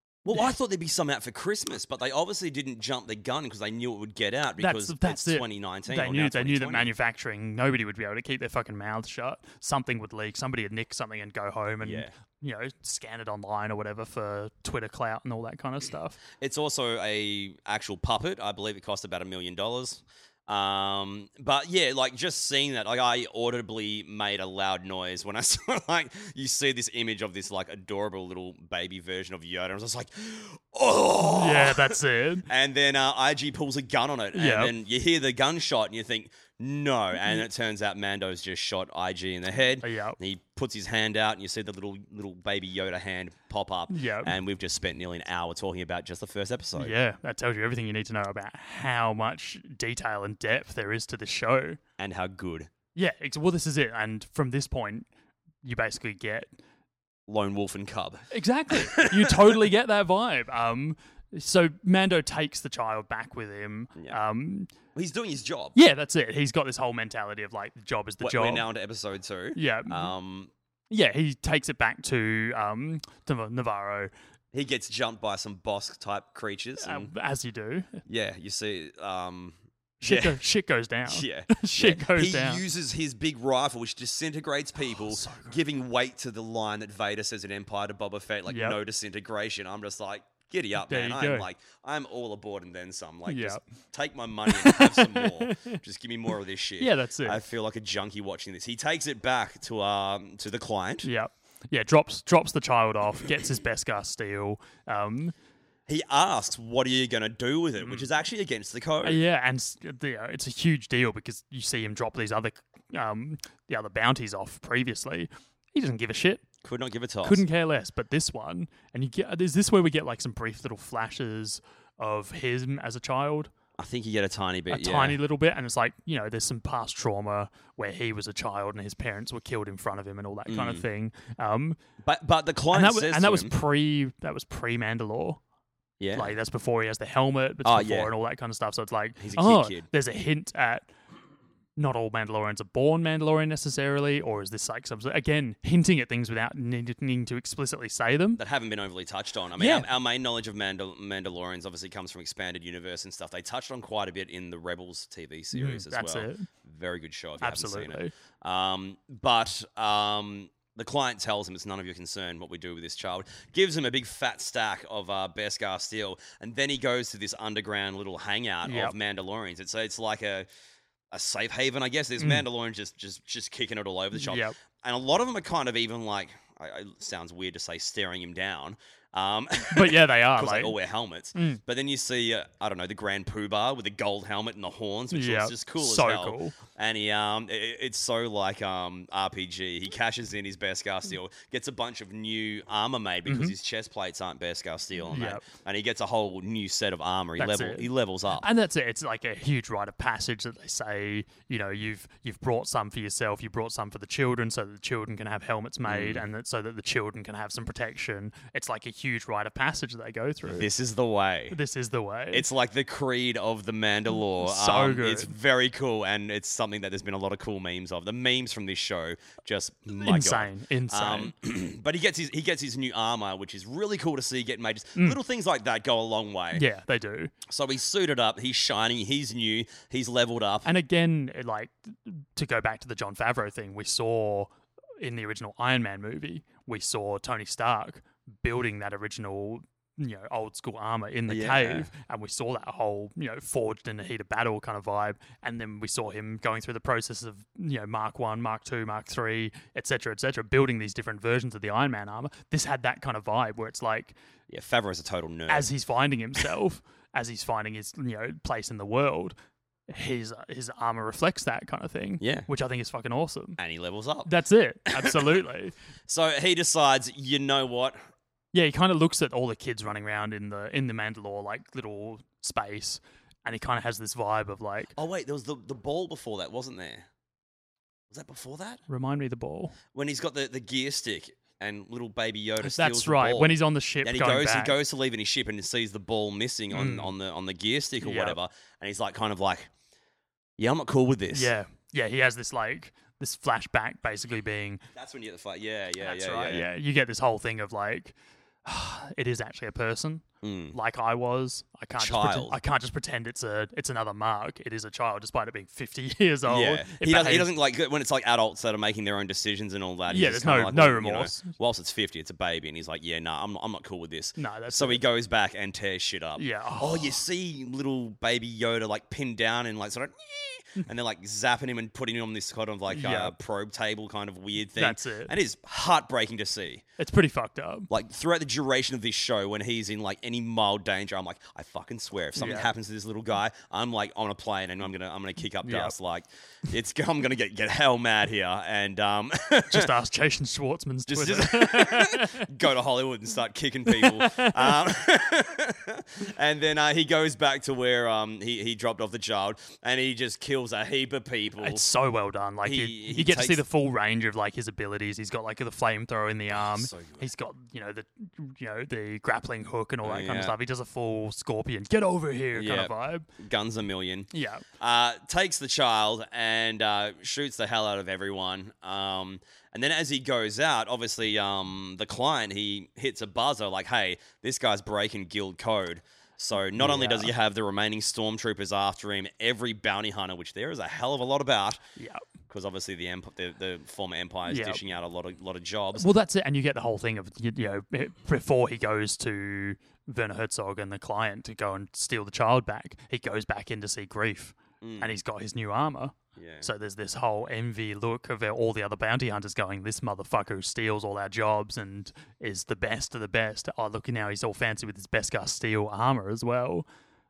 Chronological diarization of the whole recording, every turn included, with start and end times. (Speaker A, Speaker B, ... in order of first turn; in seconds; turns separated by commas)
Speaker A: 0.2-6.9, Speaker B: 4.6-16.2, Speaker A: 11.8-12.1, Speaker A: 16.4-46.9, Speaker B: 31.2-32.5, Speaker B: 34.3-34.7, Speaker B: 39.8-40.2, Speaker B: 43.9-44.3, Speaker B: 46.8-51.8, Speaker A: 52.0-52.7, Speaker B: 53.0-55.1, Speaker B: 55.6-56.6, Speaker A: 57.3-59.5, Speaker B: 58.3-64.7, Speaker A: 64.9-65.8, Speaker B: 65.8-68.7, Speaker A: 68.2-70.5, Speaker B: 69.5-70.1, Speaker B: 70.9-74.1, Speaker A: 74.5-77.1, Speaker B: 76.8-78.0, Speaker A: 78.1-80.4, Speaker B: 80.0-82.6, Speaker A: 81.1-101.1, Speaker B: 84.9-85.6, Speaker B: 88.5-88.8, Speaker B: 90.9-91.5, Speaker B: 93.3-93.6, Speaker B: 94.5-95.8, Speaker B: 96.8-97.4, Speaker B: 101.0-105.3, Speaker A: 105.9-109.2, Speaker B: 109.0-116.4, Speaker A: 116.6-117.4, Speaker B: 117.2-123.5, Speaker A: 123.8-125.2, Speaker B: 124.7-131.8, Speaker A: 130.5-130.8, Speaker A: 132.0-133.5, Speaker B: 132.7-135.4, Speaker A: 136.0-136.3, Speaker B: 136.1-140.9, Speaker A: 137.6-138.1, Speaker A: 139.2-139.9, Speaker B: 141.8-148.4, Speaker A: 148.4-170.5, Speaker B: 149.6-149.9, Speaker B: 155.5-156.5, Speaker B: 157.4-158.1, Speaker B: 168.7-168.9, Speaker A: 171.1-198.5, Speaker B: 174.2-174.5, Speaker B: 179.7-180.8, Speaker B: 181.3-181.6, Speaker B: 185.1-186.6, Speaker B: 193.3-193.5, Speaker B: 195.1-195.4, Speaker B: 197.4-197.9, Speaker B: 198.4-210.7, Speaker A: 205.9-206.3, Speaker A: 210.4-211.6, Speaker B: 211.5-212.4, Speaker A: 212.3-226.6, Speaker B: 214.4-215.3, Speaker B: 219.9-221.3, Speaker B: 226.5-227.3, Speaker A: 227.5-230.7, Speaker B: 230.7-254.2, Speaker A: 241.3-241.9, Speaker A: 254.5-255.7, Speaker B: 255.5-259.4, Speaker B: 259.9-263.6, Speaker A: 262.2-262.5, Speaker A: 263.6-264.3, Speaker B: 264.2-265.7, Speaker A: 264.9-265.3, Speaker A: 266.1-268.0, Speaker B: 268.5-274.9, Speaker A: 274.9-277.1, Speaker A: 278.1-278.8, Speaker B: 278.9-279.8, Speaker A: 279.9-289.7, Speaker B: 282.6-284.8, Speaker B: 286.7-287.1, Speaker B: 288.0-288.4, Speaker A: 290.6-291.5, Speaker B: 291.3-294.8, Speaker A: 294.9-296.7, Speaker B: 296.0-307.5, Speaker A: 300.4-300.8, Speaker A: 302.0-302.6, Speaker A: 306.5-326.8, Speaker B: 310.1-311.5, Speaker B: 314.4-315.0, Speaker B: 316.4-317.2, Speaker B: 322.9-323.4, Speaker B: 324.7-325.3, Speaker B: 327.0-327.9, Speaker A: 327.9-339.9, Speaker B: 332.4-332.7, Speaker B: 335.6-335.9, Speaker B: 339.7-342.5, Speaker A: 341.1-351.9, Speaker B: 343.9-344.8, Speaker B: 351.6-363.3, Speaker A: 352.6-353.6, Speaker A: 356.5-357.3, Speaker A: 360.0-360.6, Speaker A: 362.5-381.8, Speaker B: 364.3-364.7, Speaker B: 376.8-377.3, Speaker A: 382.5-386.1, Speaker B: 384.5-384.8, Speaker B: 386.0-406.9, Speaker A: 394.8-395.1, Speaker A: 396.4-396.7